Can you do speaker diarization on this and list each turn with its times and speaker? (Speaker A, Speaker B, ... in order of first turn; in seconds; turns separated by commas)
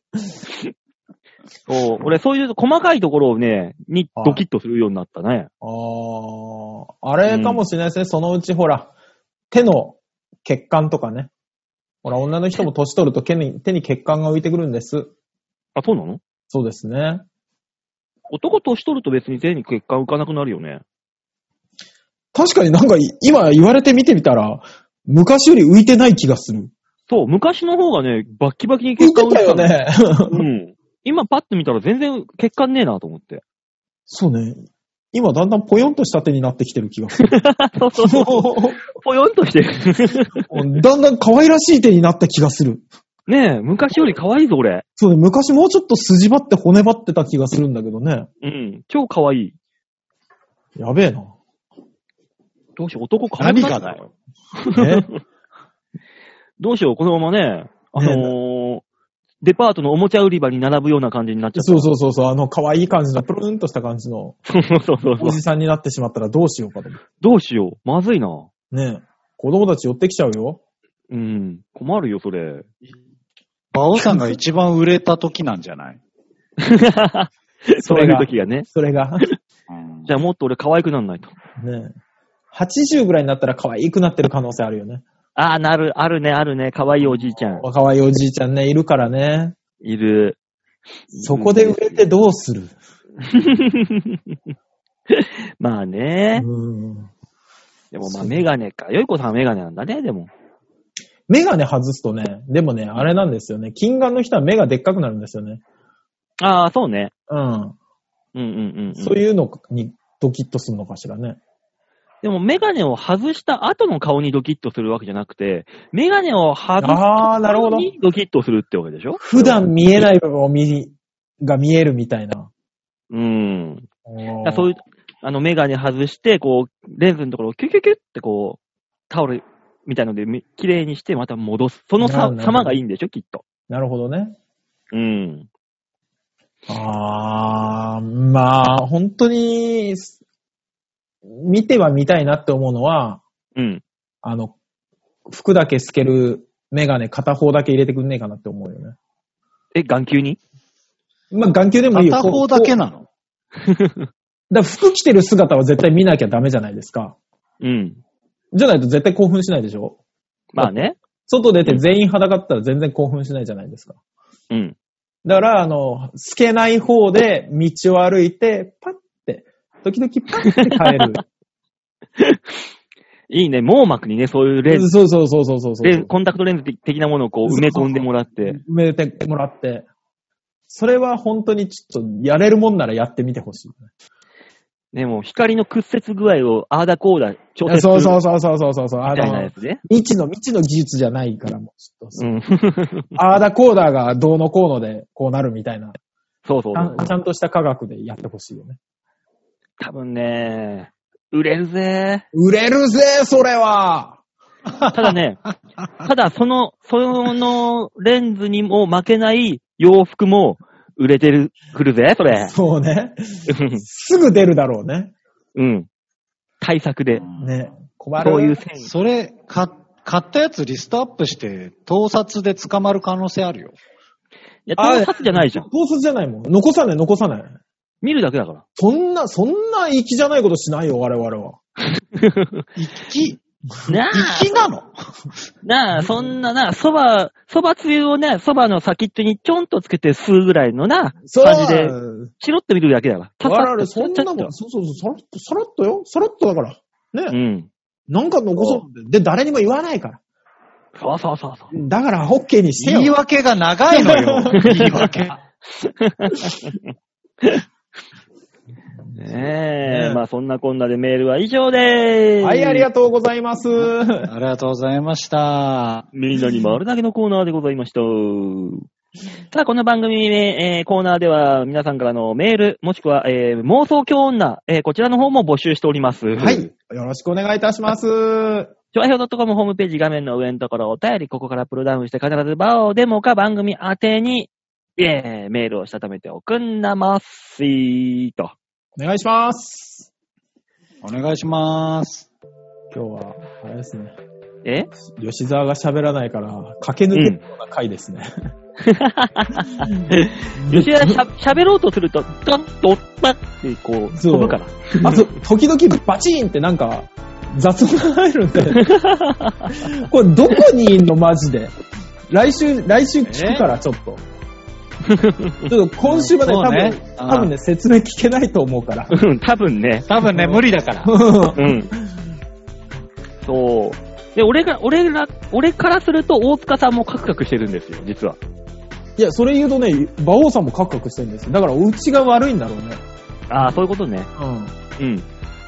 Speaker A: 1.7-5.5, Speaker B: 4.2-4.4, Speaker B: 5.6-8.9, Speaker A: 7.3-7.6, Speaker B: 9.5-11.3, Speaker B: 12.0-15.1, Speaker A: 15.8-16.2, Speaker B: 16.5-17.2, Speaker A: 18.3-20.8, Speaker B: 22.3-26.7, Speaker A: 27.1-29.7, Speaker B: 29.0-30.4, Speaker A: 30.3-33.4, Speaker B: 34.1-37.2, Speaker A: 37.2-40.5, Speaker B: 38.0-38.8, Speaker B: 40.5-42.9, Speaker A: 43.3-44.9, Speaker B: 45.0-48.3, Speaker A: 48.4-49.5, Speaker B: 50.8-51.3, Speaker A: 52.8-55.2, Speaker C: 53.4-54.0, Speaker B: 54.7-55.1, Speaker A: 56.6-58.8, Speaker B: 58.0-58.3, Speaker A: 59.4-61.9, Speaker B: 61.5-64.4, Speaker A: 64.5-65.4, Speaker B: 65.2-67.0, Speaker A: 67.2-68.5, Speaker B: 68.7-70.6, Speaker A: 71.1-72.7, Speaker C: 73.7-76.0, Speaker A: 76.6-78.7, Speaker B: 77.8-79.3, Speaker C: 79.7-80.1, Speaker A: 80.1-81.3, Speaker B: 81.6-81.9, Speaker B: 82.5-85.0, Speaker A: 85.4-87.7, Speaker B: 87.1-89.6, Speaker A: 89.8-90.4, Speaker A: 91.1-92.0, Speaker B: 91.2-92.7, Speaker A: 93.2-94.3, Speaker A: 95.1-96.5, Speaker B: 96.4-97.1, Speaker A: 97.9-100.3, Speaker B: 98.0-98.5, Speaker B: 101.3-105.6, Speaker A: 106.4-107.1, Speaker B: 107.3-107.8, Speaker A: 108.3-109.2, Speaker B: 109.0-111.4, Speaker A: 112.2-119.7, Speaker B: 116.8-117.9, Speaker B: 119.2-122.5, Speaker A: 123.1-123.9, Speaker B: 124.1-124.7, Speaker A: 124.4-133.4, Speaker B: 132.0-132.8, Speaker B: 133.7-134.3, Speaker A: 134.9-135.5, Speaker B: 136.7-140.1, Speaker B: 141.3-143.2, Speaker A: 143.6-143.8, Speaker B: 144.2-144.5, Speaker B: 145.3-149.0, Speaker A: 149.7-150.4, Speaker B: 151.3-152.7, Speaker C: 151.9-153.1, Speaker A: 153.6-154.1, Speaker B: 154.5-157.2, Speaker A: 157.6-158.0, Speaker B: 158.5-160.0, Speaker A: 160.5-161.0, Speaker B: 160.6-164.0, Speaker B: 165.2-171.2, Speaker A: 170.8-171.0, Speaker A: 173.3-174.9, Speaker B: 174.7-176.1, Speaker A: 175.8-178.6, Speaker B: 177.5-179.9, Speaker B: 180.7-183.9, Speaker A: 184.9-188.2, Speaker B: 187.7-192.2, Speaker A: 189.1-189.8, Speaker A: 192.2-193.2, Speaker B: 193.2-196.0, Speaker A: 196.4-197.1, Speaker B: 196.8-198.8, Speaker A: 199.8-202.2, Speaker B: 202.3-204.2, Speaker A: 204.9-205.4, Speaker A: 206.0-212.5, Speaker B: 212.3-215.1, Speaker A: 213.5-213.8, Speaker A: 215.6-215.9, Speaker A: 216.6-217.2, Speaker C: 217.1-217.5, Speaker B: 217.4-218.6, Speaker A: 218.2-218.9, Speaker C: 218.8-223.8, Speaker A: 224.7-225.7, Speaker B: 224.8-227.5, Speaker A: 228.0-228.6, Speaker B: 228.8-231.6, Speaker A: 232.0-232.6, Speaker C: 232.8-233.4, Speaker A: 233.9-234.5, Speaker C: 233.9-235.1, Speaker A: 235.6-244.5, Speaker B: 241.3-242.3, Speaker B: 243.4-247.3, Speaker A: 247.3-247.7, Speaker B: 248.1-250.2, Speaker A: 251.0-251.7, Speaker B: 251.7-253.1, Speaker C: 252.8-255.4, Speaker B: 253.9-255.0, Speaker A: 255.8-256.9, Speaker B: 259.1-260.2, Speaker A: 259.1-262.9, Speaker B: 262.4-264.3, Speaker C: 264.3-266.1, Speaker A: 266.1-268.8, Speaker A: 269.5-276.7, Speaker B: 276.4-278.7, Speaker A: 278.9-288.6, Speaker B: 289.0-290.1, Speaker C: 291.0-292.3, Speaker B: 292.9-294.2, Speaker A: 294.6-294.9, Speaker B: 295.1-298.3, Speaker A: 297.1-297.4, Speaker A: 298.8-305.3, Speaker B: 299.8-301.2, Speaker B: 304.1-308.9, Speaker A: 308.7-309.9, Speaker B: 309.9-311.7, Speaker B: 312.3-314.2, Speaker C: 313.3-313.6, Speaker A: 315.0-315.7, Speaker B: 315.7-319.1, Speaker C: 316.0-317.5, Speaker A: 319.1-320.1, Speaker C: 320.1-321.2, Speaker B: 320.3-322.2, Speaker A: 321.6-321.9, Speaker A: 323.4-328.4, Speaker B: 329.2-333.0, Speaker A: 333.5-334.3, Speaker B: 334.4-334.7, Speaker A: 335.0-335.2